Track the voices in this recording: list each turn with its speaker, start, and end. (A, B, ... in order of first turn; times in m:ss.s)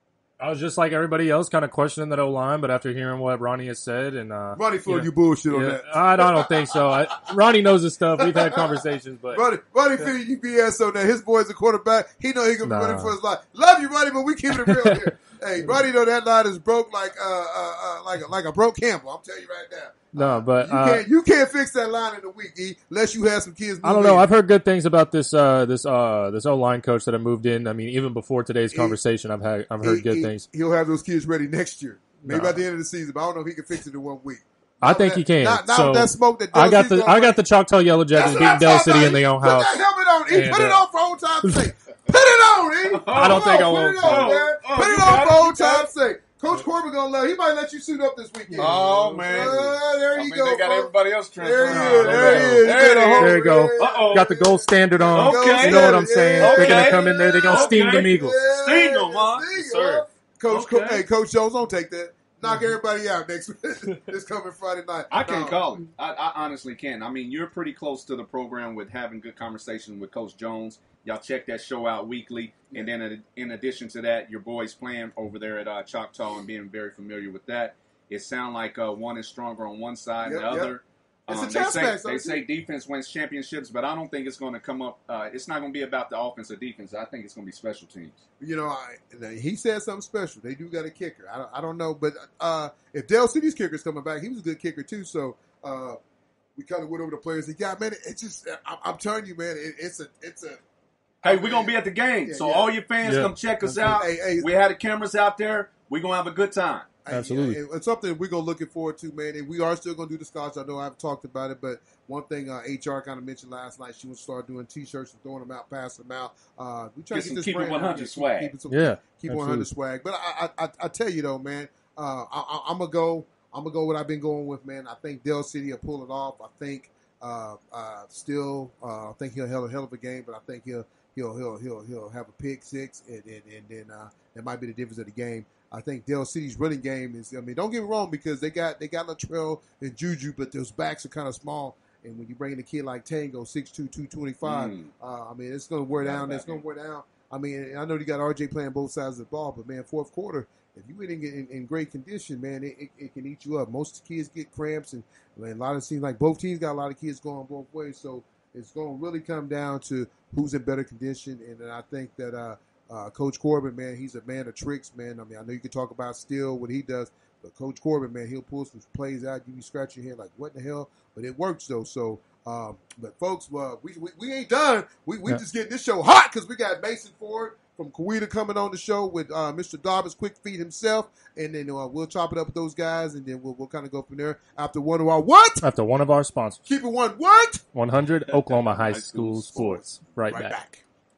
0:00.4-0:09.4 A
0:04.5-0:06.5 B
0:08.2-0:08.7 B
0:09.3-0:24.3 B
0:12.6-0:13.1 A
0:14.5-0:15.1 A
0:20.1-0:21.0 A
0:23.8-0:30.5 A
0:28.7-0:29.0 B
0:29.8-0:37.4 B
0:32.2-0:32.6 A
0:34.8-0:40.8 A
0:38.1-1:05.8 B
0:42.9-0:45.9 C
0:43.1-0:44.4 A
0:48.5-0:48.8 A
0:48.6-0:54.4 C
0:51.6-0:58.4 A
0:55.1-1:01.0 C
1:05.1-1:28.2 C
1:20.2-1:20.7 B
1:21.3-1:22.4 B
1:28.4-1:36.0 B
1:36.6-1:40.6 B
1:41.2-1:41.7 B
1:41.2-1:46.9 C
1:42.2-1:42.7 B
1:43.0-1:44.0 A
1:44.0-1:44.5 B
1:47.0-3:05.6 B
1:47.1-1:47.6 A
1:57.1-1:58.5 C
1:58.7-1:59.7 A
2:24.4-2:24.9 C
2:26.0-2:26.6 C
3:05.6-3:06.6 A
3:06.6-3:07.6 B
3:07.7-3:10.6 A
3:07.9-3:09.9 C
3:10.3-3:10.8 B